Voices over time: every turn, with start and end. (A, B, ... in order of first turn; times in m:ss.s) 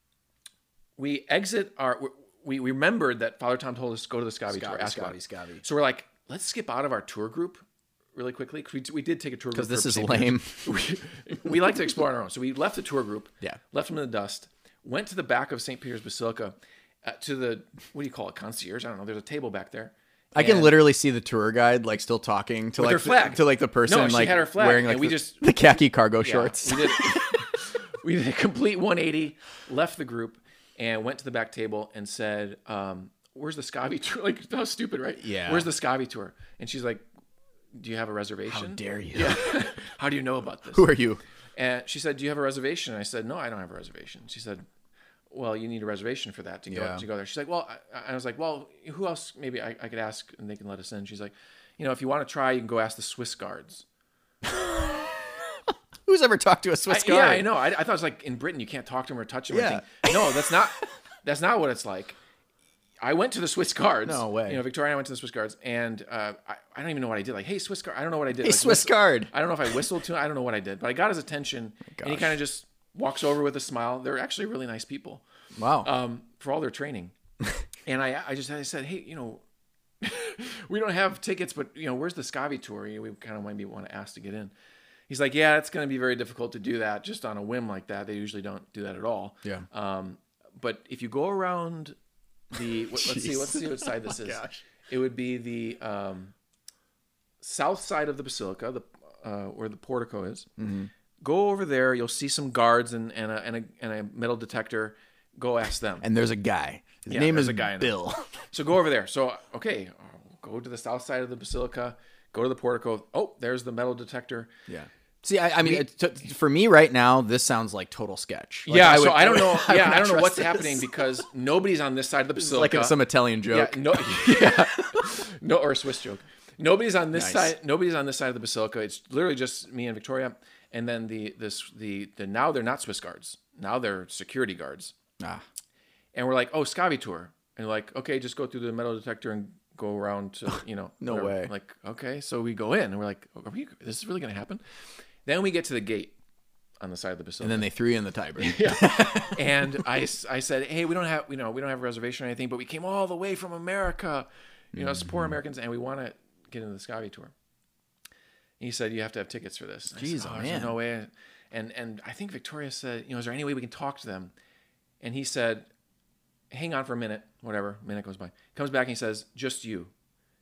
0:01.0-0:20.8 A
0:04.5-0:05.6 B
0:09.5-0:10.8 B
0:20.3-0:27.5 B
0:22.8-0:25.4 A
0:26.2-0:37.0 A
0:35.2-0:35.7 B
0:37.7-0:40.9 A
0:38.5-0:39.8 B
0:40.7-0:41.2 B
0:41.5-0:44.6 A
0:45.3-0:53.8 A
0:46.7-0:47.0 B
0:54.4-0:57.5 B
0:56.9-1:02.2 A
0:59.5-1:00.6 B
1:03.0-1:15.2 A
1:04.0-1:04.6 B
1:08.4-1:09.3 B
1:11.9-1:12.4 B
1:15.6-1:15.9 B
1:15.8-1:17.1 A
1:17.8-1:19.4 A
1:20.0-1:24.5 A
1:25.1-1:31.9 A
1:32.5-1:36.3 A
1:32.6-1:34.6 B
1:37.4-1:40.5 A
1:40.6-1:40.9 B
1:41.2-1:46.0 A
1:46.0-1:48.5 B
1:47.1-1:48.0 A
1:48.5-1:54.5 A
1:54.7-2:01.2 B
1:58.6-2:14.9 A
2:02.4-2:05.2 B
2:07.1-2:07.5 B
2:16.1-2:26.2 A
2:21.0-2:21.5 B
2:26.8-2:27.7 A
2:27.4-2:29.8 B
2:28.4-2:37.3 A
2:34.7-2:35.4 B
2:38.6-2:44.3 A
2:39.9-2:40.8 B
2:45.0-2:45.7 A
2:46.5-2:49.9 A